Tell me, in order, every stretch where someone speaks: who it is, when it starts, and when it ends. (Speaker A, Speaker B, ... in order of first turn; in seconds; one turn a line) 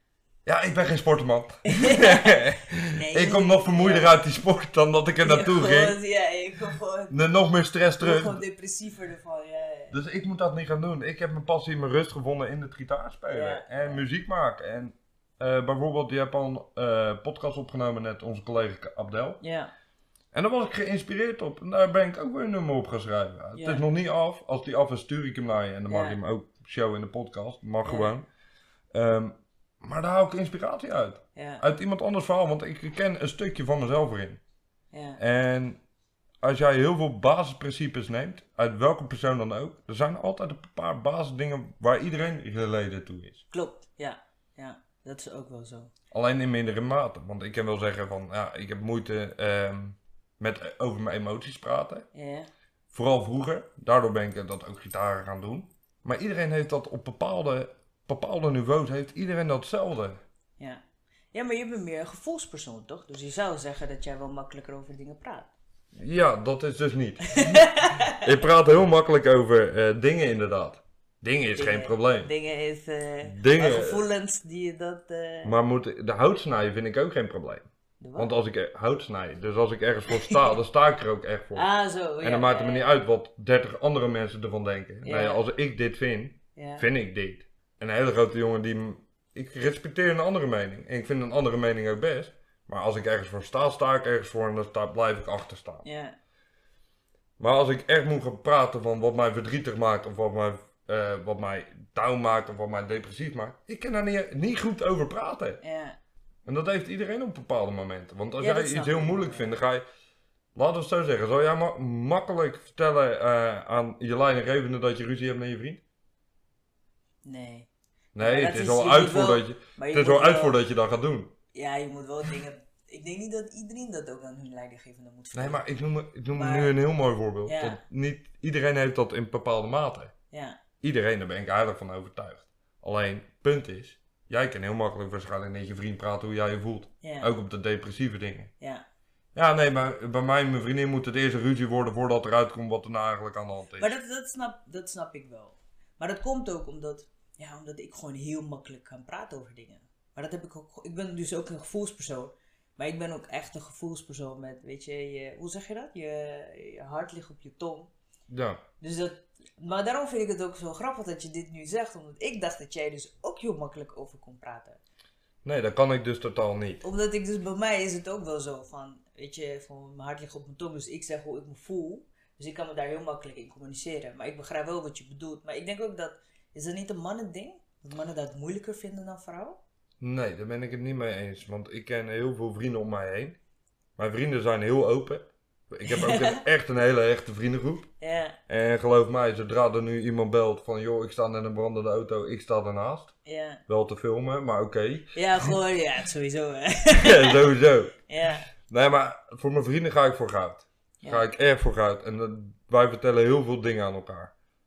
Speaker A: 0.5-6.0
Speaker B: 1.7-4.1
Speaker B: 5.2-7.2
Speaker A: 7.1-8.4
Speaker B: 8.0-10.0
Speaker A: 9.9-19.4
Speaker B: 13.3-14.0
Speaker B: 19.4-19.7
Speaker A: 20.3-28.3
Speaker B: 23.6-23.8
Speaker B: 25.9-26.2
Speaker B: 27.8-28.1
Speaker A: 28.9-34.4
Speaker B: 31.4-31.6
Speaker B: 34.9-35.2
Speaker A: 35.2-35.8
Speaker A: 36.4-43.4
Speaker B: 43.5-45.9
Speaker A: 46.1-52.1
Speaker B: 52.1-52.5
Speaker A: 52.9-60.2
Speaker B: 61.3-65.5
Speaker A: 65.9-72.3
Speaker B: 67.3-68.4
Speaker B: 71.5-75.5
Speaker A: 73.2-74.0
Speaker A: 75.4-81.7
Speaker B: 78.0-78.3
Speaker B: 80.1-80.6
Speaker B: 81.5-83.0
Speaker A: 82.2-95.8
Speaker B: 85.0-85.4
Speaker B: 86.6-86.9
Speaker B: 95.8-96.2
Speaker A: 97.4-105.6
Speaker B: 105.6-106.0
Speaker A: 106.5-109.8
Speaker B: 108.4-109.5
Speaker A: 110.5-115.8
Speaker B: 117.2-120.6
Speaker A: 118.2-121.4
Speaker B: 121.5-125.7
Speaker A: 125.3-130.1
Speaker B: 126.3-126.8
Speaker B: 127.5-127.8
Speaker B: 130.3-130.6
Speaker A: 130.8-138.5
Speaker B: 137.0-137.3
Speaker B: 138.6-138.8
Speaker A: 139.3-144.0
Speaker B: 143.8-157.9
Speaker A: 158.3-158.6
Speaker B: 158.8-164.8
Speaker A: 165.4-166.8
Speaker B: 166.8-179.6
Speaker A: 180.0-183.4
Speaker A: 184.0-187.9
Speaker B: 185.9-186.4
Speaker B: 188.0-188.4
Speaker A: 188.5-193.1
Speaker B: 193.2-193.6
Speaker A: 193.7-195.6
Speaker B: 195.2-197.6
Speaker A: 196.9-198.0
Speaker B: 198.1-198.5
Speaker A: 198.6-204.3
Speaker B: 201.0-201.3